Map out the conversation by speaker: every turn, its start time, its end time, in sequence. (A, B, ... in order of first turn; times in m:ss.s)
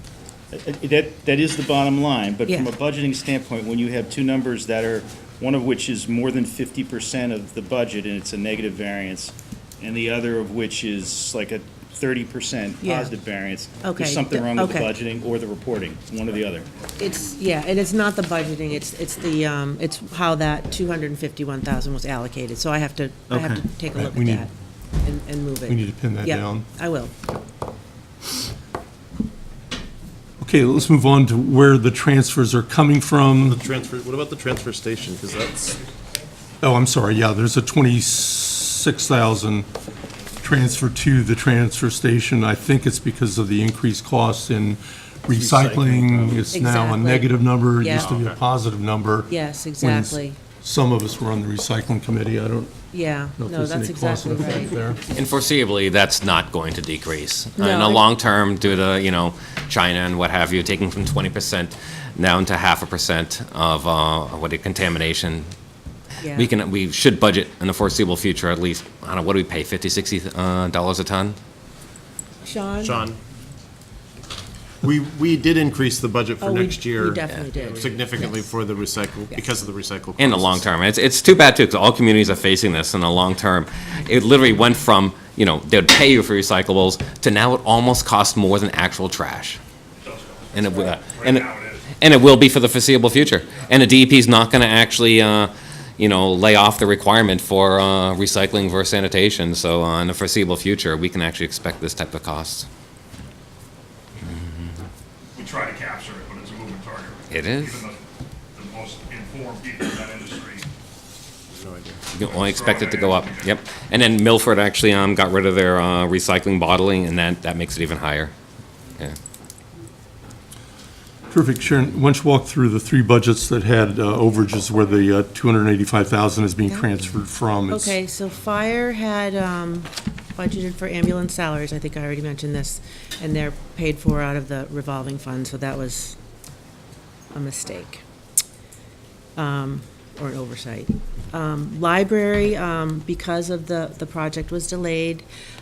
0:00.5-0:16.7 A
0:02.4-0:02.8 B
0:12.8-0:13.1 B
0:13.8-0:15.0 B
0:17.0-0:24.5 B
0:23.3-0:24.5 C
0:25.0-0:27.1 B
0:25.7-0:26.7 C
0:30.4-0:33.6 C
0:33.4-0:35.8 D
0:36.6-0:39.7 C
0:40.4-0:52.7 C
0:45.3-0:46.4 D
0:46.5-0:48.1 B
0:48.0-0:48.4 D
0:49.3-0:50.4 B
0:52.9-0:54.8 B
0:53.4-0:55.0 C
0:55.1-1:05.5 E
0:57.6-0:58.1 B
1:06.2-1:06.5 B
1:06.4-1:11.4 E
1:12.4-1:13.0 B
1:12.8-1:13.2 D
1:14.8-1:20.7 D
1:16.4-1:18.5 B
1:20.2-1:29.6 E
1:30.0-1:31.9 F
1:30.5-1:42.7 E
1:44.2-1:44.7 E
1:45.4-1:50.7 F
1:47.3-1:47.9 E
1:51.5-1:52.0 D
1:52.1-1:58.3 E
1:52.4-1:53.5 F
2:01.3-2:08.0 C
2:07.7-2:16.2 B
2:17.3-2:18.0 B
2:19.4-2:25.2 B